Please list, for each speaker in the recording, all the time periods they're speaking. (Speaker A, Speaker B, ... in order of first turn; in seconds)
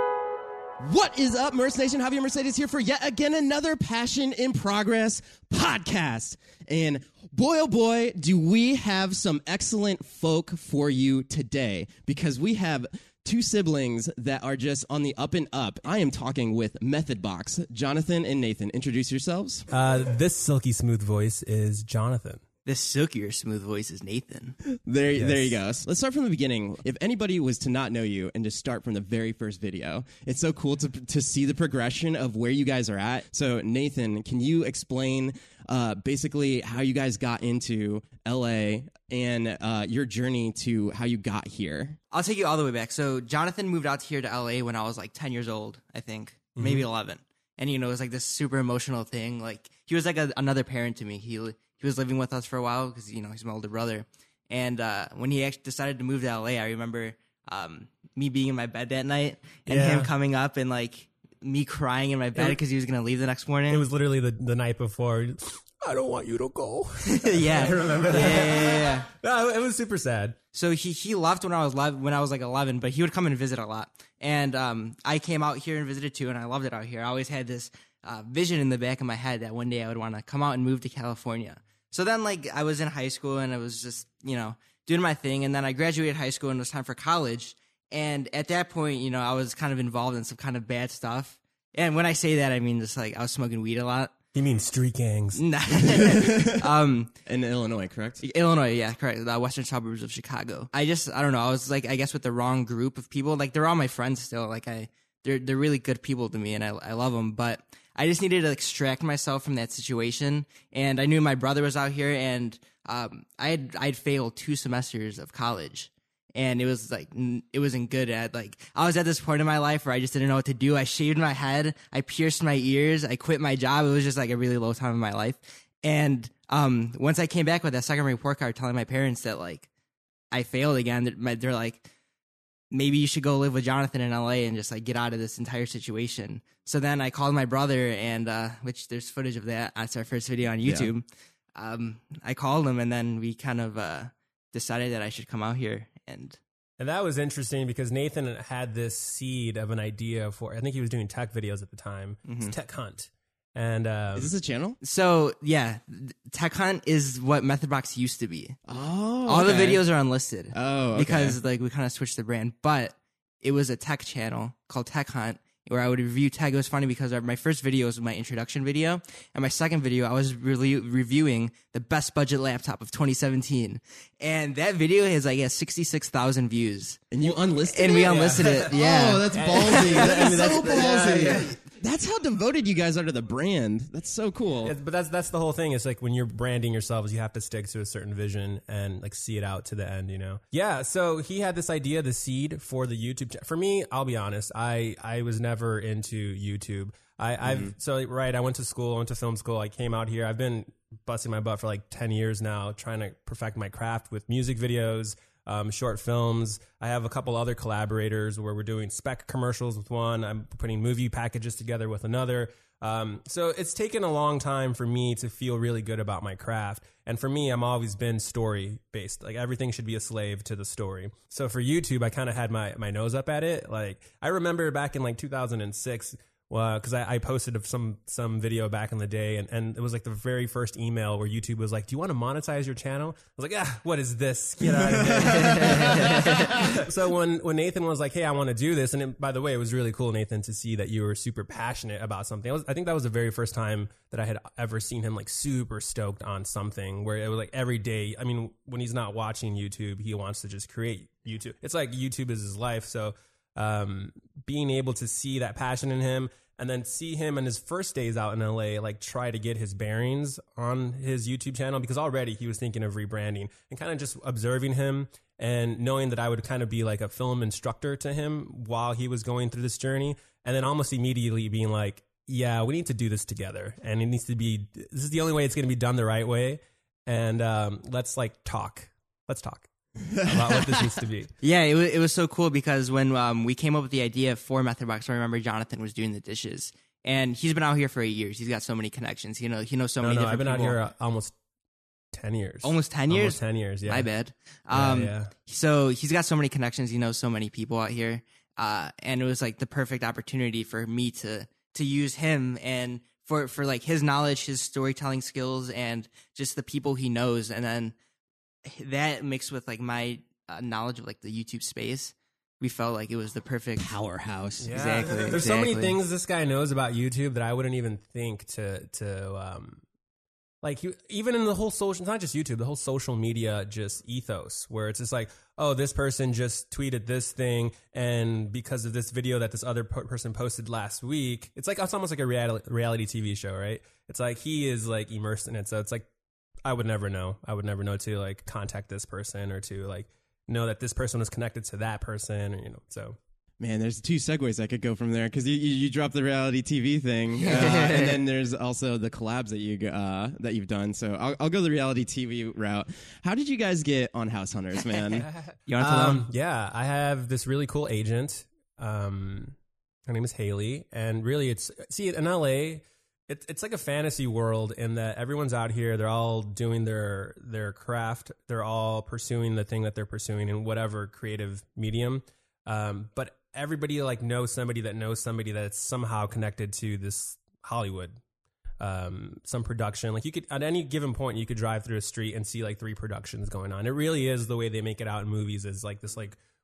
Speaker A: 0.8-19.7, 24.7-42.0, 96.0-96.7, 97.2-98.2, 140.6-140.9, 154.2-154.8, 158.7-159.8, 160.5-161.4, 177.1-184.7, 197.4-197.7, 234.9-236.7, 313.8-315.4, 343.6-355.3
Speaker B: 19.7-22.4, 25.1-25.5, 46.6-46.9, 59.7-60.1, 63.7-70.4, 94.3-95.4, 146.8-154.3, 178.1-178.7, 179.3-181.5, 184.6-281.3, 290.0-291.3, 292.1-294.1, 294.7-295.3, 314.6-319.8, 320.6-336.1, 336.6-343.2, 355.8-359.6, 360.1-378.2, 378.8-386.4
Speaker C: 22.6-24.6, 42.1-63.8, 67.0-69.1, 70.5-94.1, 95.3-97.1, 98.2-129.7, 130.3-131.9, 132.7-146.4, 152.2-152.5, 154.8-158.6, 159.2-177.1, 177.7-181.4, 235.3-236.5, 281.4-290.8, 292.6-307.9, 308.6-313.9, 314.7-315.9, 347.4-348.2, 355.7-356.2